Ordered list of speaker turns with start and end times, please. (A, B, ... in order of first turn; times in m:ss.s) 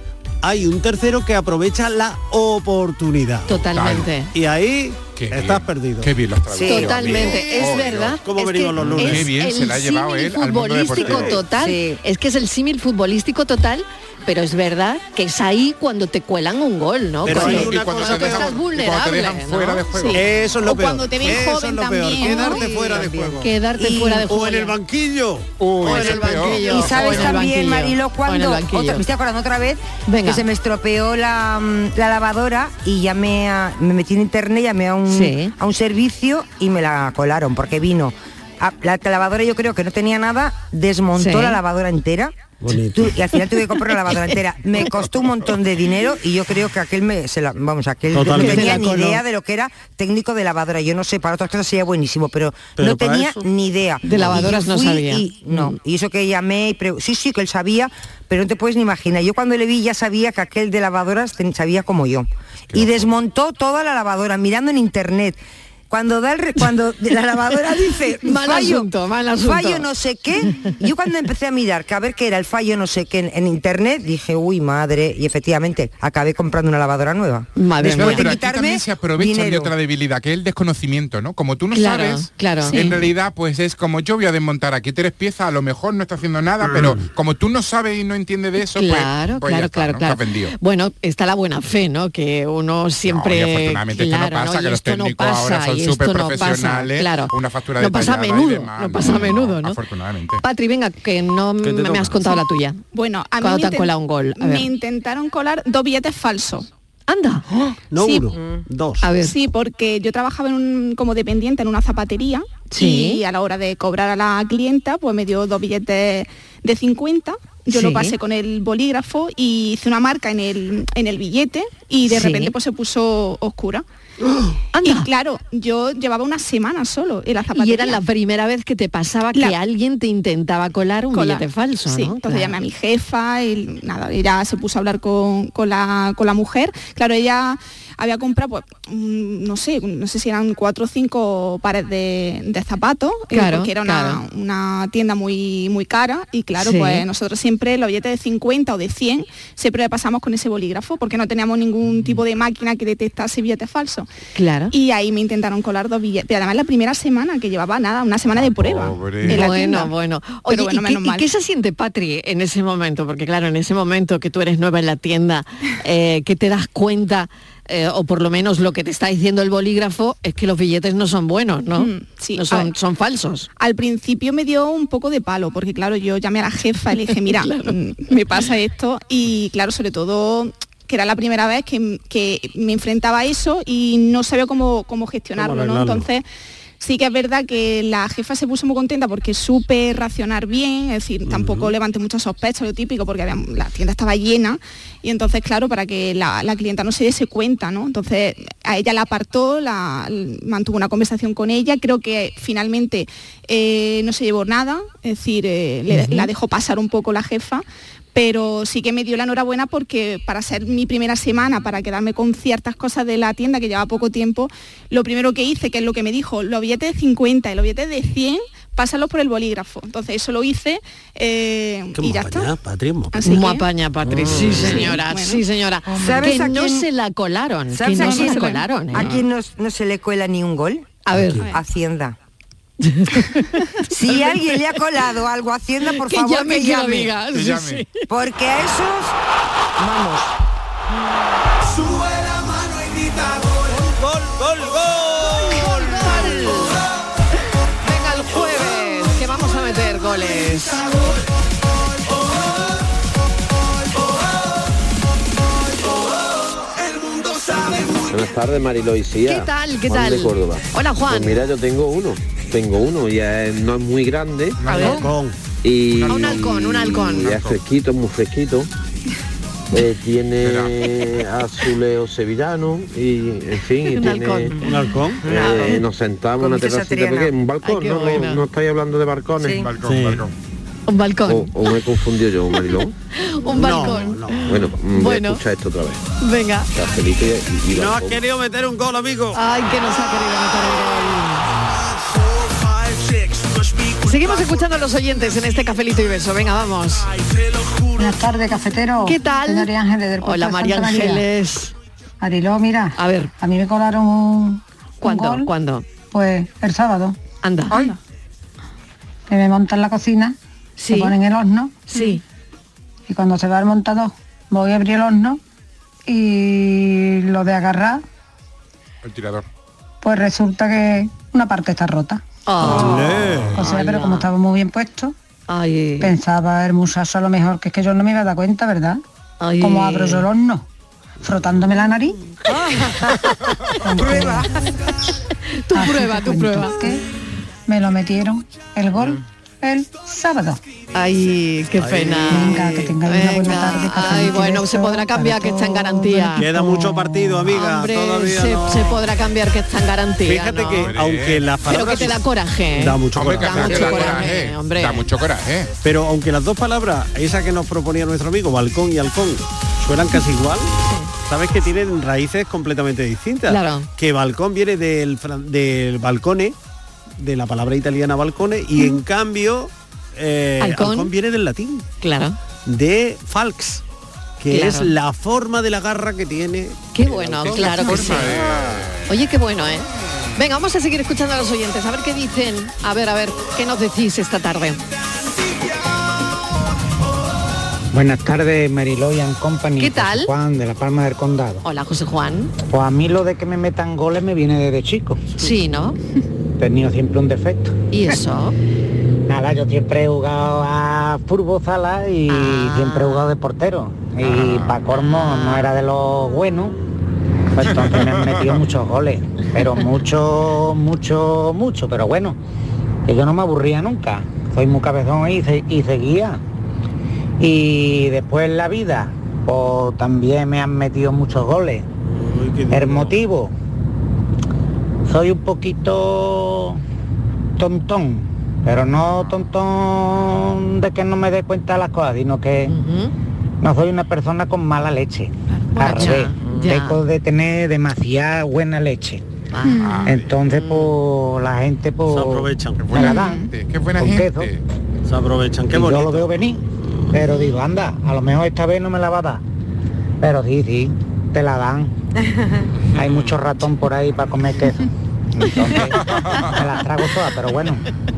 0:00.4-0:03.6 A
0:03.5-0:04.3 B
0:03.7-0:04.1 C
0:04.3-0:06.1 A
0:05.1-0:08.2 C
0:06.5-0:06.9 D
0:06.6-0:20.2 B
0:06.9-0:09.3 A
0:08.8-0:11.4 C
0:10.9-0:11.4 A
0:11.5-0:12.0 D
0:17.2-0:18.6 A
0:17.2-0:20.2 C
0:20.1-0:23.6 A
0:20.6-0:22.7 E
0:22.2-0:24.7 B
0:23.8-0:24.2 D
0:24.2-0:27.3 A
0:25.6-0:27.4 C
0:25.8-0:29.1 B
0:26.7-0:42.3 D
0:30.1-0:30.4 B
0:35.1-0:35.5 B
0:41.2-0:41.6 B
0:42.6-0:43.2 A
0:42.9-1:05.4 D
0:48.1-0:49.2 A
0:48.3-0:49.1 B
0:52.8-0:53.5 A
0:54.0-0:55.7 B
0:54.1-0:54.4 A
1:05.9-1:19.7 D
1:08.2-1:09.9 B
1:17.6-1:18.4 B
1:17.8-1:30.5 C
1:21.7-1:22.9 B
1:22.7-1:23.0 E
1:26.7-1:27.0 A
1:28.7-1:39.8 B
1:33.0-1:40.4 C
1:40.4-1:42.8 B
1:41.6-1:42.2 A
1:42.9-1:46.7 E
1:43.4-1:44.7 B
1:47.1-1:47.4 B
1:47.9-1:49.0 A
1:48.0-1:48.3 E
1:49.0-1:49.4 B
1:49.2-2:03.8 E
1:52.7-1:53.2 B
1:57.7-1:58.2 B
2:02.0-2:02.5 B
2:04.7-2:05.1 B
2:04.8-2:08.0 E
2:07.5-2:12.6 B
2:11.1-2:34.1 E
2:23.3-2:24.2 B
2:26.6-2:27.0 B
2:34.3-2:34.7 B
2:34.7-2:39.9 E
2:38.4-2:39.5 C
2:39.2-2:53.5 B
2:40.4-2:41.3 E
2:51.7-2:52.7 E
2:53.6-3:06.2 E
2:57.0-2:57.7 B
3:05.4-3:06.1 A
3:06.8-3:42.5 E
3:11.2-3:11.7 A
3:25.9-3:26.3 B
3:42.0-3:43.2 A
3:43.1-3:43.7 E
3:43.2-3:49.2 B
3:44.0-3:45.0 A
3:44.5-3:45.4 E
3:45.9-3:46.9 D
3:47.7-3:52.2 D
3:47.9-3:49.2 E
3:51.0-3:51.5 B
3:51.1-3:51.5 A
3:52.8-3:54.6 B
3:53.9-3:57.1 D
3:55.9-3:58.0 B
3:57.3-3:57.8 C
3:58.1-3:59.1 D
3:59.8-4:00.3 D
4:03.6-4:06.6 A
4:05.5-4:06.8 B
4:07.8-4:10.9 B
4:18.1-4:24.6 F
4:19.2-4:21.4 B
4:24.6-4:25.1 C
4:24.7-4:25.0 B
4:24.8-4:25.4 A
4:25.6-4:28.7 F
4:25.9-4:26.5 C
4:26.1-4:27.4 B
4:27.1-4:27.6 C
4:29.7-4:34.5 F
4:30.4-4:30.9 C
4:33.9-4:34.8 B
4:34.6-4:35.6 A
4:35.2-4:35.8 D
4:35.4-4:39.6 F
4:36.4-4:37.3 D
4:37.6-4:38.4 B
4:39.4-4:39.7 D
4:39.5-4:40.3 C
4:39.8-4:40.2 A
4:40.9-4:41.7 B
4:41.3-4:42.9 F
4:43.2-4:45.4 B
4:43.5-4:44.6 A
4:44.5-4:46.0 F
4:46.2-4:46.7 B
4:46.7-4:48.1 F
4:47.7-4:49.4 A
4:49.3-4:51.5 B
4:54.0-4:57.1 B
4:58.0-5:01.2 G
4:59.0-5:01.7 B
5:02.2-5:05.5 G
5:03.0-5:03.3 B
5:05.0-5:05.8 B
5:06.1-5:07.2 G
5:07.4-5:07.8 B
5:07.7-5:08.0 E
5:09.3-5:10.4 G
5:10.8-5:11.1 B
5:10.9-5:11.9 G
5:11.9-5:12.2 B
5:13.1-5:15.4 G
5:16.1-5:18.0 G
5:19.0-5:19.4 C
5:20.0-5:22.9 G
5:22.5-5:24.3 B
5:22.6-5:23.7 A
5:23.6-5:25.1 G
5:25.5-5:26.1 B
5:26.0-5:29.0 G
5:29.4-5:30.3 B
5:29.6-5:30.6 G
5:31.2-5:32.2 G
5:32.5-5:32.9 D
5:33.8-5:34.5 G
5:34.0-5:34.5 D
5:35.5-5:36.8 B
5:35.7-5:37.0 G
5:37.7-5:40.6 G
5:40.9-5:46.5 B
5:41.8-5:42.9 A
5:42.3-5:47.1 G
5:46.3-5:49.0 A
5:47.4-5:50.9 B
5:50.2-5:54.2 A
5:50.7-5:51.5 C
5:51.6-5:55.0 B
5:53.1-5:55.7 C
5:55.8-6:06.5 A
6:00.8-6:01.1 B
6:03.5-6:03.9 B
6:07.2-6:11.8 A
6:10.6-6:11.1 B
6:12.0-6:12.4 B
6:12.6-6:13.8 A
6:14.4-6:18.3 A
6:14.5-6:14.9 B
6:16.9-6:18.4 B
6:17.5-6:19.1 C
6:19.1-6:24.8 B
6:27.9-6:31.6 H
6:29.8-6:30.3 B
6:31.6-6:32.5 B
6:32.7-6:35.2 H
6:35.4-6:36.0 B
6:36.6-6:37.7 H
6:37.9-6:38.6 B
6:39.3-6:46.8 H
6:42.3-6:43.3 B
6:44.2-6:44.8 C
6:44.9-6:45.7 B
6:47.5-6:52.4 H
6:47.6-6:48.6 C
6:53.0-6:56.4 H
6:57.4-7:01.8 H
7:02.0-7:03.2 A
7:02.7-7:03.5 H
7:05.0-7:06.8 H
7:07.6-7:12.7 H
7:12.7-7:13.1 B
7:13.6-7:19.2 H
7:15.7-7:17.0 B
7:19.5-7:20.9 B
7:19.6-7:20.1 E
7:19.7-7:20.4 C
7:20.1-7:22.5 H
7:22.1-7:22.9 A
7:22.8-7:24.6 C
7:22.9-7:23.5 E
7:23.1-7:23.4 H
7:24.0-7:24.5 H
7:25.0-7:26.4 A
7:25.7-7:26.6 H
7:27.1-7:29.4 H
7:30.2-7:31.9 H
7:33.0-7:33.2 C
7:33.0-7:36.0 H
7:36.0-7:36.6 C
7:36.6-7:37.8 H